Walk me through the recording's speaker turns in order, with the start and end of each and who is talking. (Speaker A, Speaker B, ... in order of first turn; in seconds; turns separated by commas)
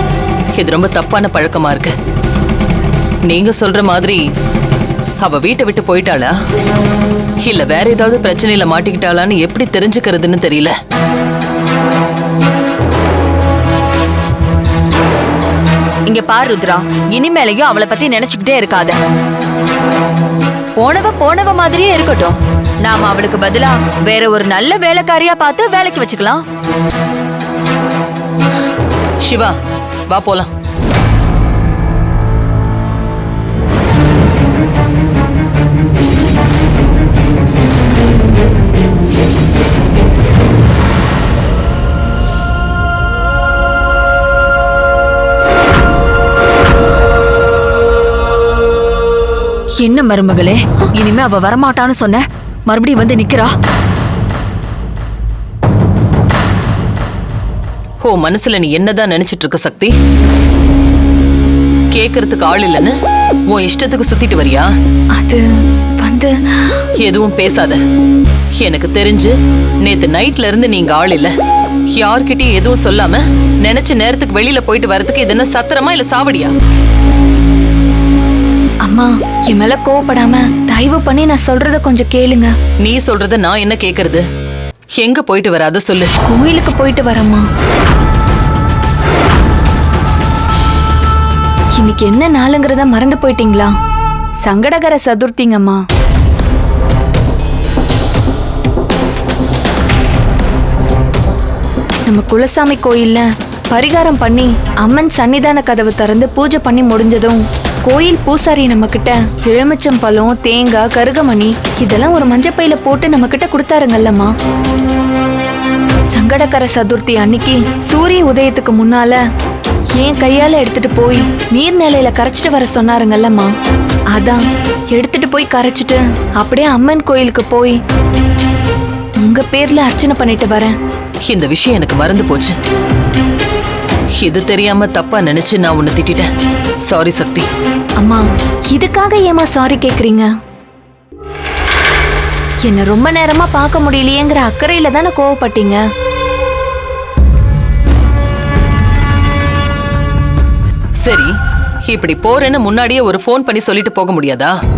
Speaker A: 0.6-1.9, Speaker A: 3.3-4.2, Speaker A: 5.2-6.3, Speaker A: 7.5-10.7, Speaker B: 16.1-19.0, Speaker B: 20.8-26.4, Speaker A: 29.2-29.5, Speaker A: 30.1-30.5, Speaker B: 49.8-53.5, Speaker A: 58.0-59.9, Speaker A: 61.9-62.9, Speaker A: 63.5-64.7, Speaker C: 65.2-65.4, Speaker C: 66.0-66.8, Speaker A: 67.0-67.8, Speaker A: 68.6-69.3, Speaker A: 69.8-71.3, Speaker A: 71.9-76.5, Speaker C: 78.8-82.5, Speaker A: 82.8-84.2, Speaker A: 85.0-86.1, Speaker C: 86.3-87.4, Speaker C: 91.8-93.7, Speaker C: 94.4-95.8, Speaker C: 102.1-114.3, Speaker C: 116.1-119.2, Speaker C: 120.0-123.5, Speaker C: 124.1-127.8, Speaker C: 129.2-130.7, Speaker A: 131.2-132.6, Speaker A: 134.2-136.3, Speaker A: 136.9-137.4, Speaker C: 138.0-140.3, Speaker C: 142.6-145.8, Speaker A: 151.0-151.3, Speaker A: 151.9-154.5